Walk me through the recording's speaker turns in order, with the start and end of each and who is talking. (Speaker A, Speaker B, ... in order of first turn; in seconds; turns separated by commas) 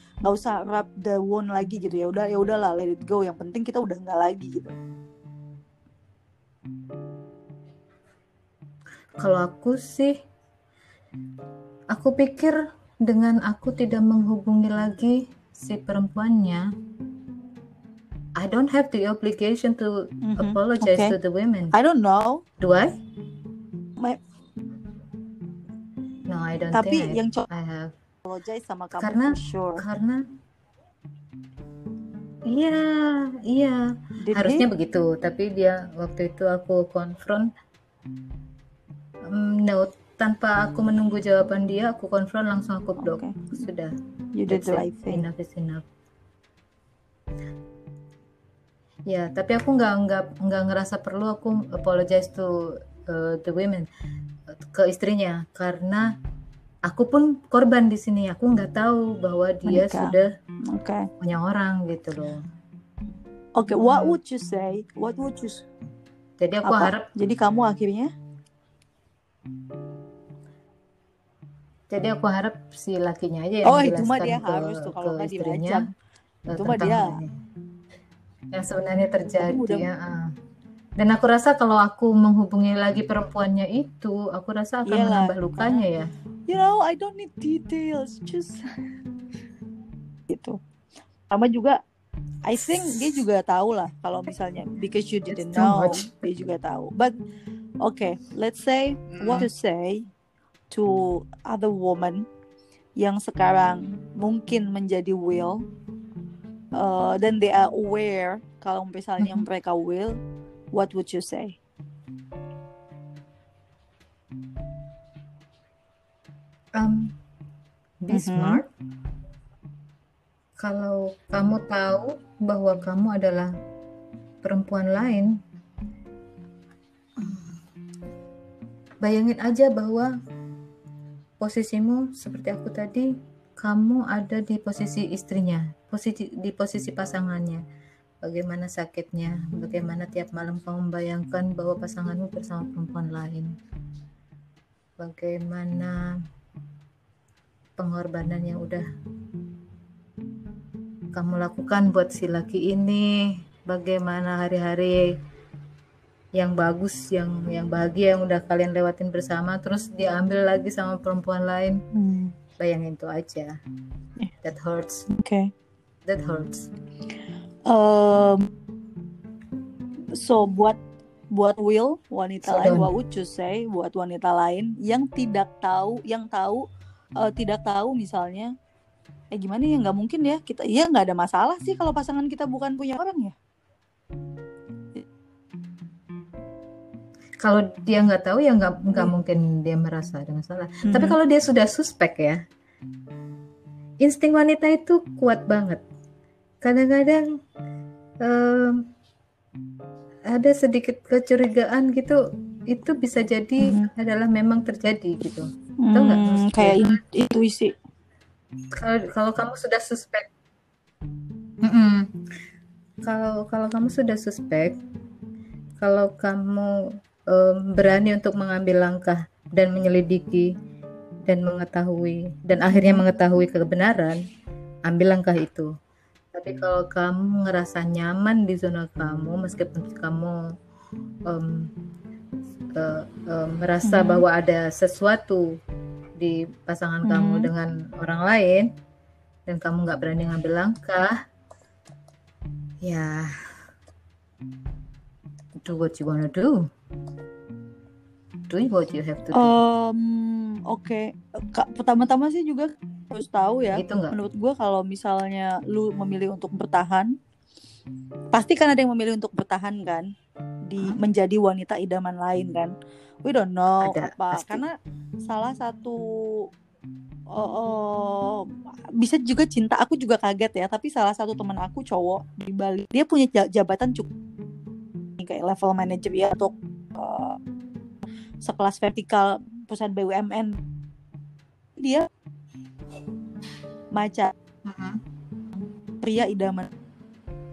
Speaker A: 0.2-4.8, Speaker B: 9.2-10.2, Speaker B: 11.9-16.7, Speaker B: 18.4-21.8, Speaker A: 20.2-21.1, Speaker A: 21.7-22.4, Speaker B: 22.6-22.9, Speaker B: 26.3-28.0, Speaker A: 26.7-27.4, Speaker A: 28.2-29.8, Speaker B: 29.0-30.2, Speaker B: 32.5-37.5, Speaker A: 34.2-34.7, Speaker B: 39.3-44.0, Speaker A: 43.0-43.5, Speaker A: 44.4-45.2, Speaker B: 44.5-45.9, Speaker B: 49.1-53.9, Speaker B: 54.5-56.1, Speaker B: 56.9-60.3, Speaker A: 59.7-61.1, Speaker B: 61.2-62.4, Speaker A: 63.6-65.7, Speaker B: 63.8-64.2, Speaker B: 66.4-67.1, Speaker A: 66.6-68.1, Speaker B: 71.9-75.8, Speaker A: 73.7-75.9, Speaker B: 76.5-77.3, Speaker A: 76.5-77.2, Speaker B: 78.5-80.3, Speaker A: 79.4-79.9, Speaker B: 81.0-86.1, Speaker A: 84.9-85.8, Speaker A: 86.5-88.7, Speaker A: 90.3-90.6, Speaker A: 91.3-91.8, Speaker A: 92.5-97.2, Speaker B: 95.3-96.3, Speaker A: 97.8-100.0, Speaker B: 99.1-99.5, Speaker A: 100.7-102.3, Speaker A: 103.0-105.6, Speaker A: 106.7-110.2, Speaker B: 109.2-109.5, Speaker A: 110.7-111.6, Speaker B: 116.8-117.2, Speaker B: 118.0-118.7, Speaker A: 118.1-118.6, Speaker B: 120.6-123.5, Speaker B: 124.4-125.3, Speaker B: 127.2-127.6, Speaker B: 129.0-130.1, Speaker B: 131.4-137.6, Speaker B: 138.2-143.5, Speaker B: 145.0-146.2, Speaker B: 147.8-148.8, Speaker B: 151.1-155.0, Speaker B: 156.4-161.8, Speaker A: 161.9-162.3, Speaker B: 162.6-163.6, Speaker B: 164.4-165.1, Speaker A: 165.1-165.5, Speaker B: 166.1-166.7, Speaker A: 167.7-168.5, Speaker A: 170.2-170.8, Speaker A: 171.3-176.6, Speaker B: 172.5-172.9, Speaker A: 177.2-178.5, Speaker A: 179.3-183.3, Speaker B: 187.4-192.4, Speaker A: 190.8-191.2, Speaker B: 194.0-195.8, Speaker B: 196.6-197.2, Speaker B: 198.2-198.9, Speaker B: 200.3-207.0, Speaker A: 203.6-203.9, Speaker A: 205.8-207.7, Speaker B: 208.7-210.3, Speaker B: 211.6-212.1, Speaker B: 213.0-214.8, Speaker B: 215.8-220.5, Speaker B: 221.3-224.2, Speaker A: 222.7-223.0, Speaker B: 224.9-225.7, Speaker B: 226.3-230.4, Speaker B: 231.3-231.7, Speaker B: 232.7-235.5, Speaker A: 233.8-234.2, Speaker B: 236.2-238.7, Speaker A: 237.0-237.5, Speaker B: 239.5-241.2, Speaker B: 242.8-243.3, Speaker B: 245.6-246.6, Speaker B: 248.5-249.5, Speaker A: 249.3-257.1, Speaker B: 253.7-254.2, Speaker A: 258.3-260.1, Speaker A: 260.7-262.7, Speaker A: 263.2-264.7, Speaker B: 263.8-264.6, Speaker A: 265.3-266.0, Speaker A: 267.3-268.5, Speaker A: 269.0-274.1, Speaker A: 275.2-277.4, Speaker A: 278.4-280.6, Speaker A: 281.8-282.1, Speaker A: 283.9-284.3, Speaker B: 284.6-285.0, Speaker A: 286.0-286.7